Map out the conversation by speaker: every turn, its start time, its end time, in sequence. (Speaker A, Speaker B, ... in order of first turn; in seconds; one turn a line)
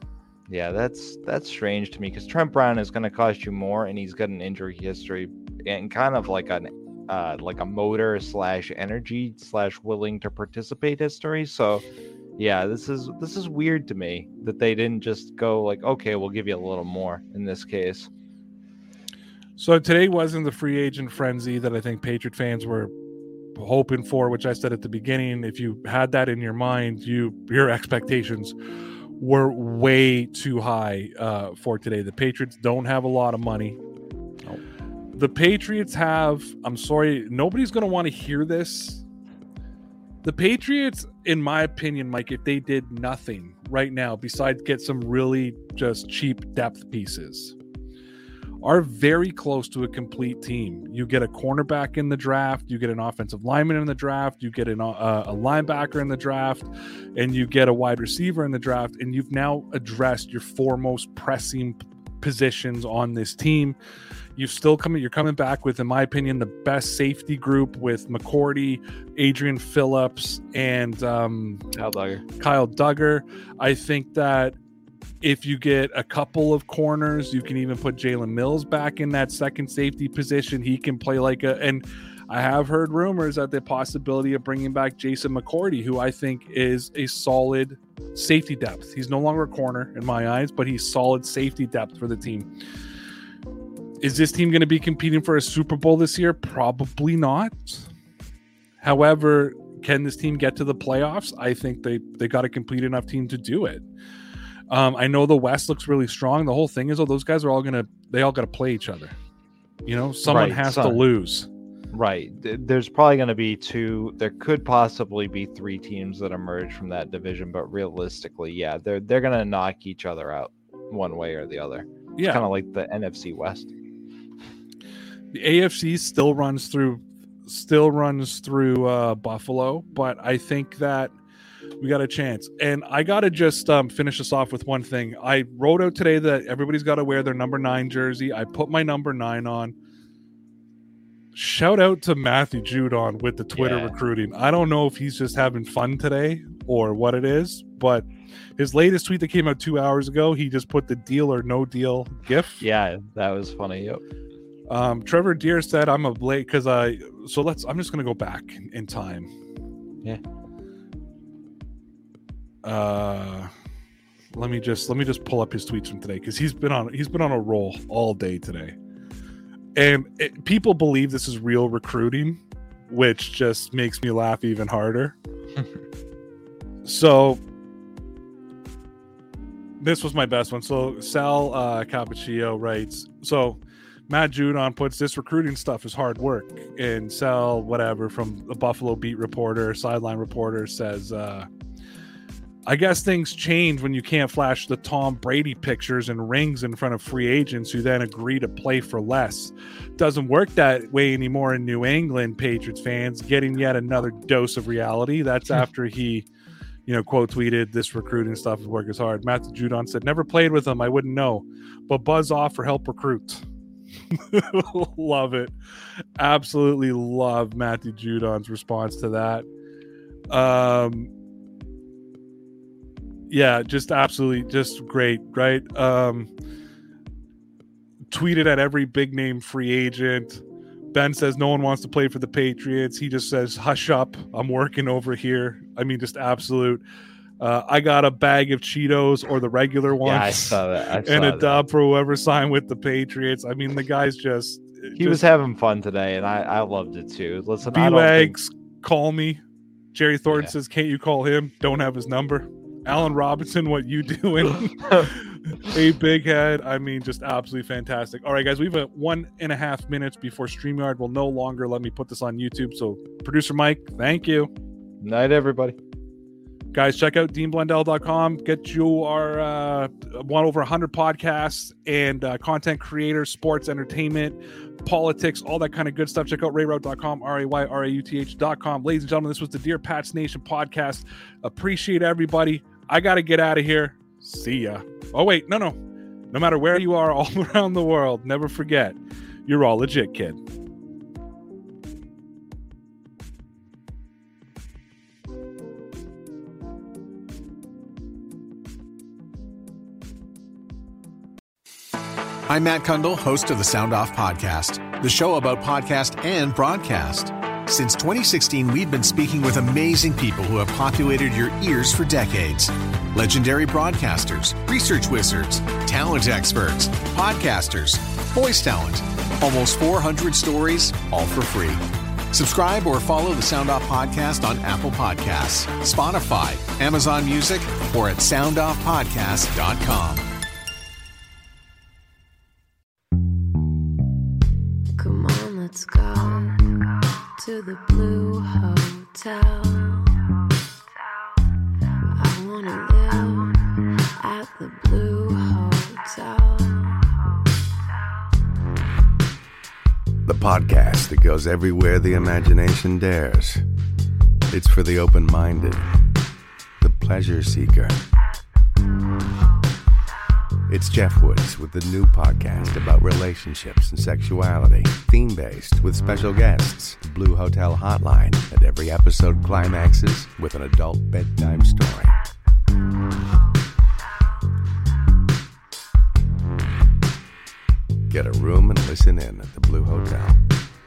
Speaker A: 0.5-11.8
Speaker A: 12.4-18.1
Speaker B: 19.6-22.9
Speaker B: 23.5-28.6
Speaker B: 29.2-33.8
Speaker B: 35.1-39.0
Speaker B: 40.2-47.5
Speaker B: 48.6-63.8
Speaker B: 64.3-71.6
Speaker A: 71.7-72.2
Speaker B: 72.4-74.6
Speaker B: 75.2-92.5
Speaker B: 94.0-97.9
Speaker B: 98.8-103.8
Speaker B: 104.7-109.1
Speaker B: 109.8-111.5
Speaker A: 110.2-111.0
Speaker A: 111.9-123.7
Speaker B: 122.2-122.4
Speaker B: 125.3-131.1
Speaker B: 131.8-139.7
Speaker B: 141.3-148.1
Speaker A: 143.6-143.9
Speaker B: 148.6-152.6
Speaker A: 152.6-154.0
Speaker B: 154.7-159.3
Speaker B: 162.6-163.5
Speaker B: 164.3-168.8
Speaker B: 169.7-175.2
Speaker B: 176.8-177.4
Speaker B: 179.8-191.5
Speaker B: 192.7-206.3
Speaker B: 206.8-213.4
Speaker B: 214.1-215.5
Speaker B: 216.2-219.4
Speaker B: 220.3-221.1
Speaker B: 223.3-226.3
Speaker B: 228.1-236.8
Speaker B: 237.4-245.2
Speaker A: 240.0-241.6
Speaker A: 245.0-248.3
Speaker B: 247.6-249.4
Speaker B: 249.9-264.5
Speaker A: 265.0-265.8
Speaker B: 266.7-285.8
Speaker B: 286.3-290.4
Speaker C: 302.5-330.2
Speaker D: 335.0-336.8
Speaker D: 337.4-340.1
Speaker D: 342.1-347.1
Speaker E: 350.2-353.6
Speaker E: 354.5-355.9
Speaker E: 356.8-358.0
Speaker E: 360.7-372.1
Speaker E: 378.1-380.4